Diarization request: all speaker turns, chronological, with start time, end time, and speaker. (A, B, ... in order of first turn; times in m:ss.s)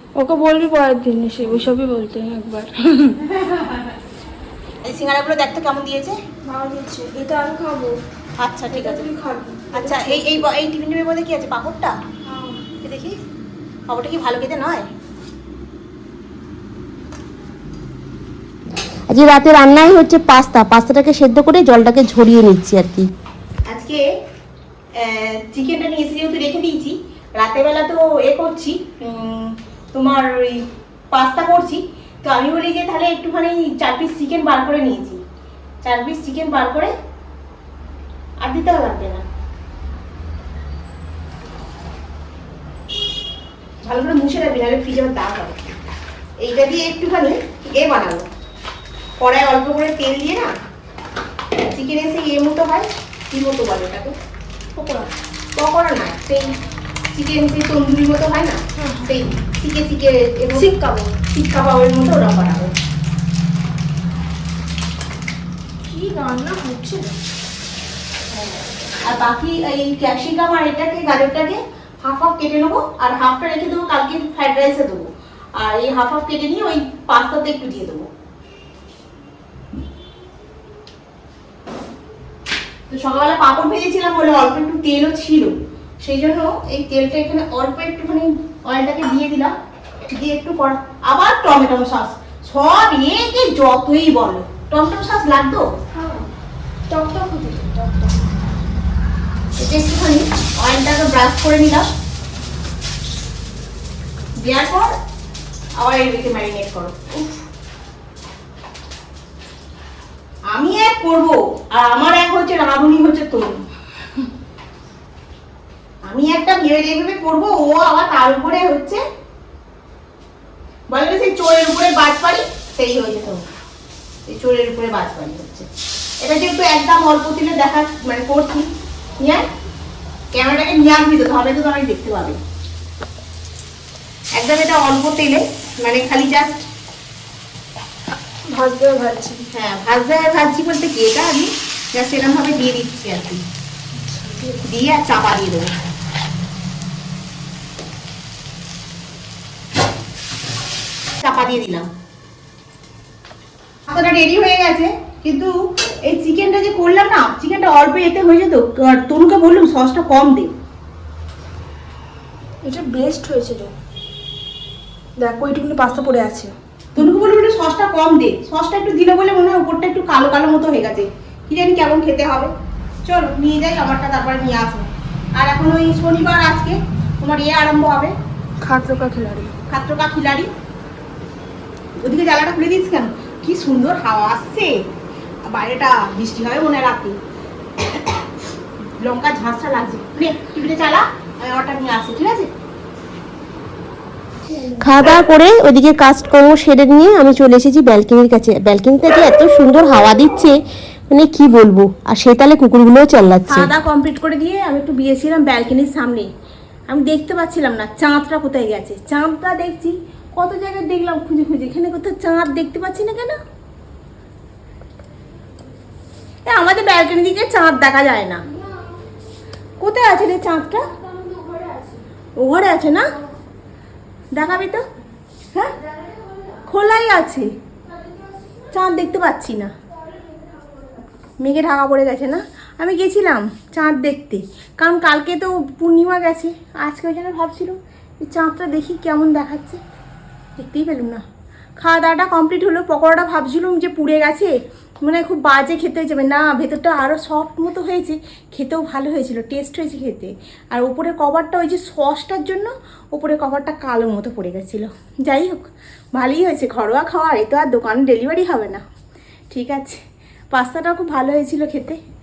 0:00.2-0:03.2 A
0:03.2-0:04.0 B
0:04.8-0:06.2 B
0:06.4-0:08.0 A
0:08.4-0:09.1 B
0:08.7-0:10.4 A
0:09.7-0:11.9 B
0:12.2-0:12.7 A
0:12.8-0:13.2 B
0:13.9-0:14.8 B
0:19.1-0:23.1 C
0:23.7-0:24.0 B
0:25.0-0:30.6 B
0:31.1-0:35.2 B
0:35.8-0:36.9 B
0:38.4-0:39.2 B
0:43.8-0:45.7 B
0:46.4-0:48.2 B
0:49.2-0:50.5 B
0:51.6-0:54.1 B
0:54.7-0:55.1 A
0:55.5-0:56.5 B
0:57.1-1:00.7 B
0:58.8-0:59.0 A
1:00.5-1:01.2 A
1:01.3-1:02.7 B
1:05.8-1:07.2 A
1:08.3-1:18.1 B
1:22.9-1:29.5 B
1:30.1-1:35.6 B
1:35.9-1:36.3 A
1:36.9-1:38.3 A
1:39.6-1:41.9 B
1:44.4-1:44.9 B
1:45.8-1:47.4 B
1:50.5-1:53.6 B
1:56.1-1:59.0 B
2:00.9-2:03.4 B
2:04.3-2:05.7 B
2:06.2-2:09.4 B
2:10.3-2:12.4 B
2:14.4-2:16.6 B
2:18.5-2:19.4 A
2:19.5-2:23.4 B
2:24.0-2:24.6 A
2:24.6-2:25.7 B
2:31.2-2:31.9 B
2:33.9-2:35.5 B
2:36.0-2:40.5 B
2:42.6-2:43.7 A
2:45.2-2:47.1 A
2:47.0-2:52.5 B
2:53.0-2:58.1 B
2:58.6-2:59.5 A
2:59.7-3:00.5 B
3:02.0-3:04.7 B
3:05.5-3:07.2 B
3:07.8-3:08.2 B
3:09.0-3:12.5 B
3:14.8-3:20.6 C
3:21.1-3:23.7 C
3:23.5-3:26.3 B
3:26.9-3:33.4 B
3:36.4-3:38.4 B
3:39.8-3:40.8 B
3:41.0-3:42.1 A
3:42.4-3:43.1 B
3:44.3-3:44.8 B
3:46.6-3:47.5 B
3:48.7-3:49.7 B
3:51.4-3:59.8 B
4:00.6-4:01.2 B
4:01.8-4:18.8 B
4:19.5-4:20.0 B
4:20.5-4:22.0 B